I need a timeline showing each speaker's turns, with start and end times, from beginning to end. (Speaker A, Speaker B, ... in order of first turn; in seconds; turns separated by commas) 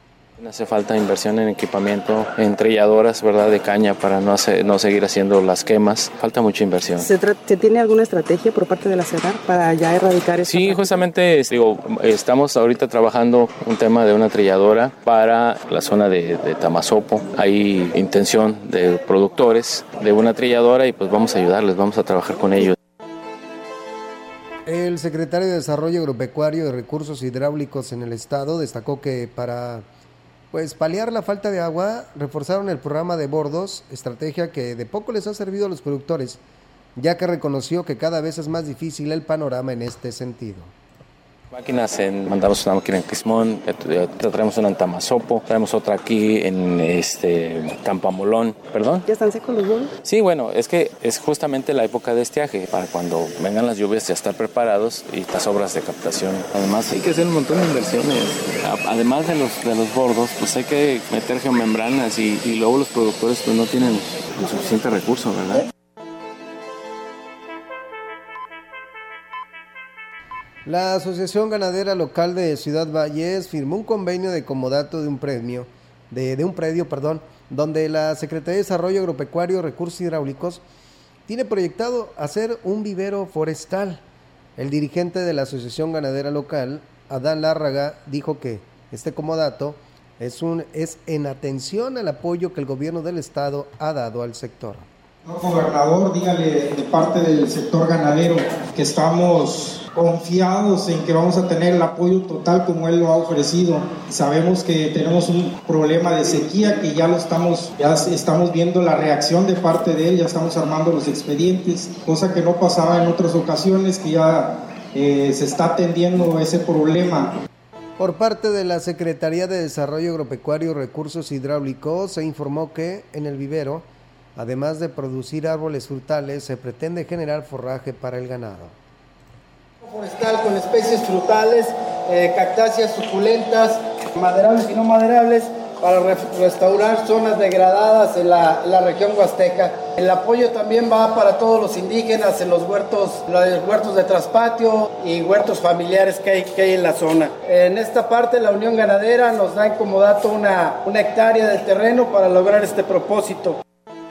Speaker A: 0.4-7.1, Speaker B: 7.0-10.8, Speaker A: 10.4-22.7, Speaker C: 24.6-29.9, Speaker C: 30.5-36.4, Speaker C: 37.0-40.7, Speaker A: 41.5-49.0, Speaker B: 49.1-49.9, Speaker A: 50.0-65.7, Speaker C: 70.6-80.6, Speaker C: 81.3-84.0, Speaker C: 84.6-94.9, Speaker D: 95.2-117.3, Speaker C: 118.0-128.8, Speaker E: 129.8-153.6